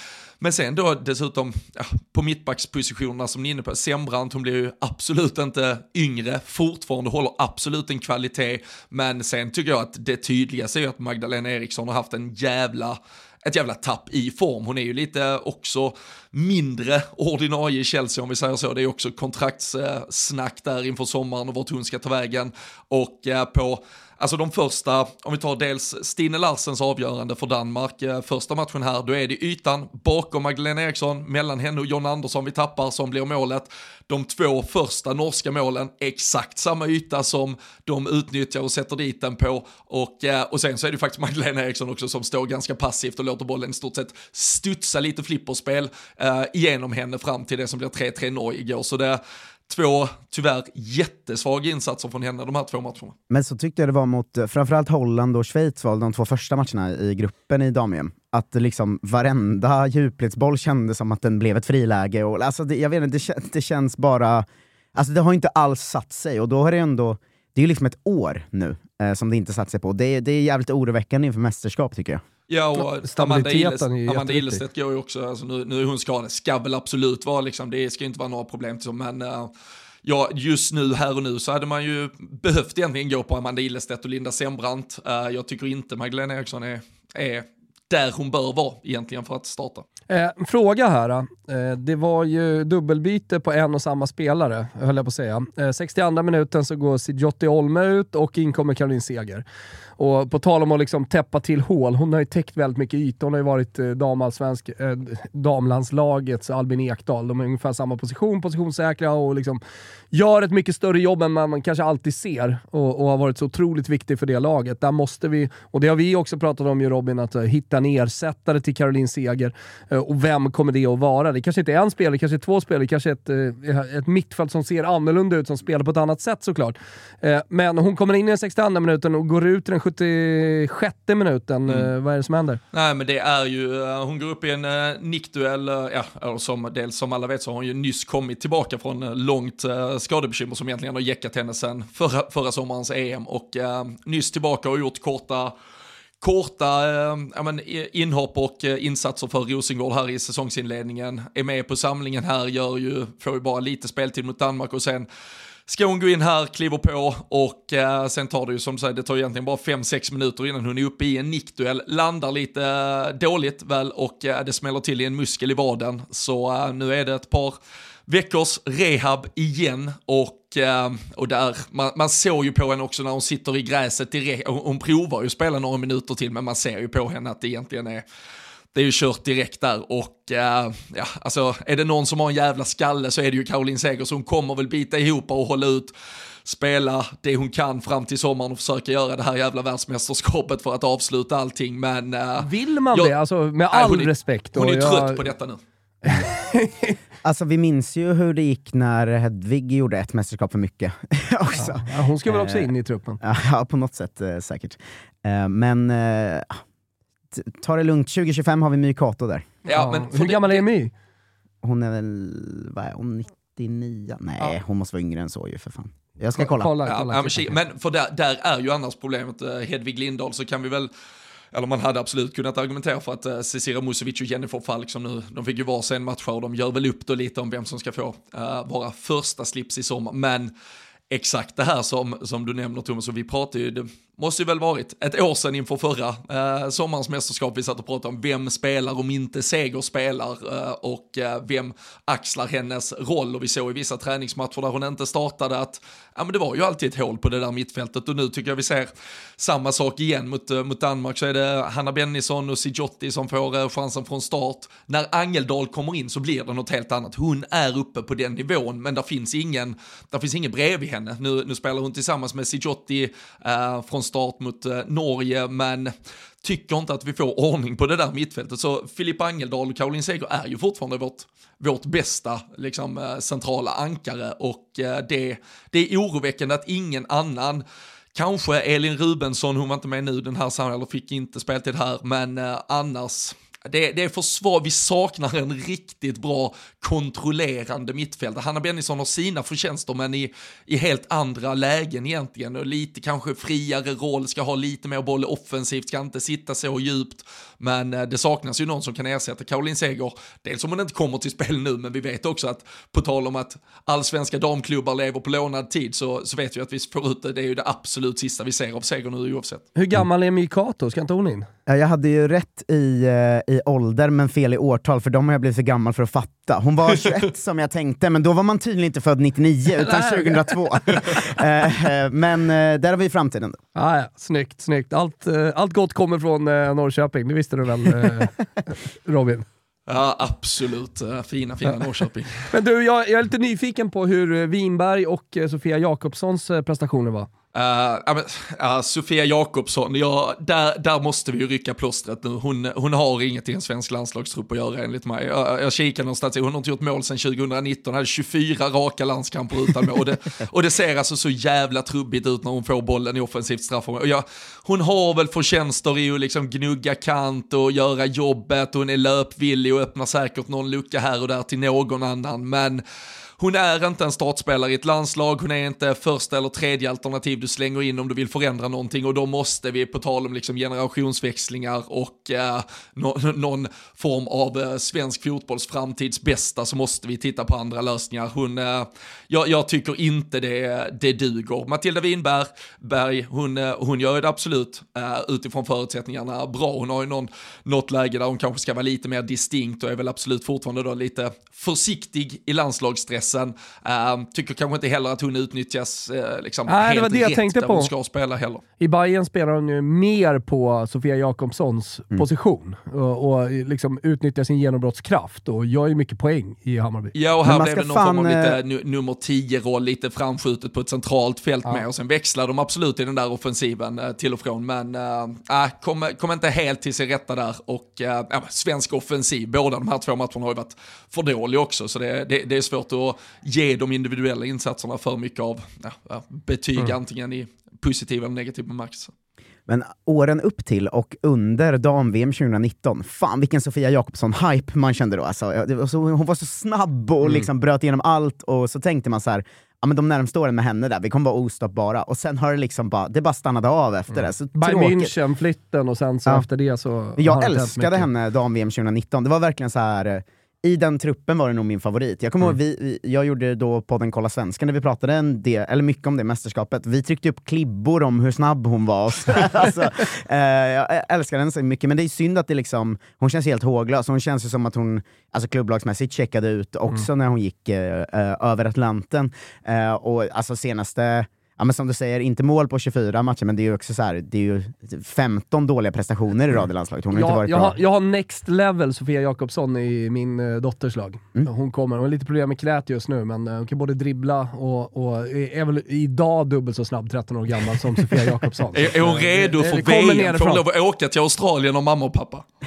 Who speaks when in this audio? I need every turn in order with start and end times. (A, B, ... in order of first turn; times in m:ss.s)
0:00.4-0:53.2 A
0:53.3-1:12.2 B
1:12.5-1:19.5 A
1:13.0-1:14.6 C
1:20.0-1:29.8 A
1:30.1-1:39.4 C
1:40.0-1:49.6 C
1:50.1-2:12.6 C
2:12.7-2:25.5 A
2:26.2-2:35.1 A
2:35.7-2:47.6 A
2:48.1-2:58.0 A
2:58.7-3:05.9 A
3:06.4-3:13.1 A
3:12.4-3:15.3 C
3:13.7-3:15.6 A
3:16.1-3:17.0 C
3:17.2-3:26.6 B
3:21.6-3:23.2 C
3:27.3-3:29.5 B
3:29.7-3:30.6 A
3:29.7-3:30.9 C
3:31.6-3:36.8 B
3:36.4-3:37.5 C
3:36.9-3:40.9 A
3:41.5-3:50.5 A
3:51.1-5:09.7 A
5:09.8-5:11.5 C
5:11.7-5:23.6 B
5:19.8-5:20.5 C
5:23.8-5:29.5 C
5:29.9-5:32.4 A
5:32.5-5:37.3 C
5:37.5-6:02.8 A
6:03.4-6:38.6 A
6:36.7-6:37.9 C
6:38.8-6:47.2 C
6:47.2-7:09.1 A
6:47.4-6:48.6 B
7:09.7-7:25.2 B
7:24.6-7:28.1 C
7:27.2-7:57.8 B
7:57.1-8:10.6 C
8:08.7-8:12.4 A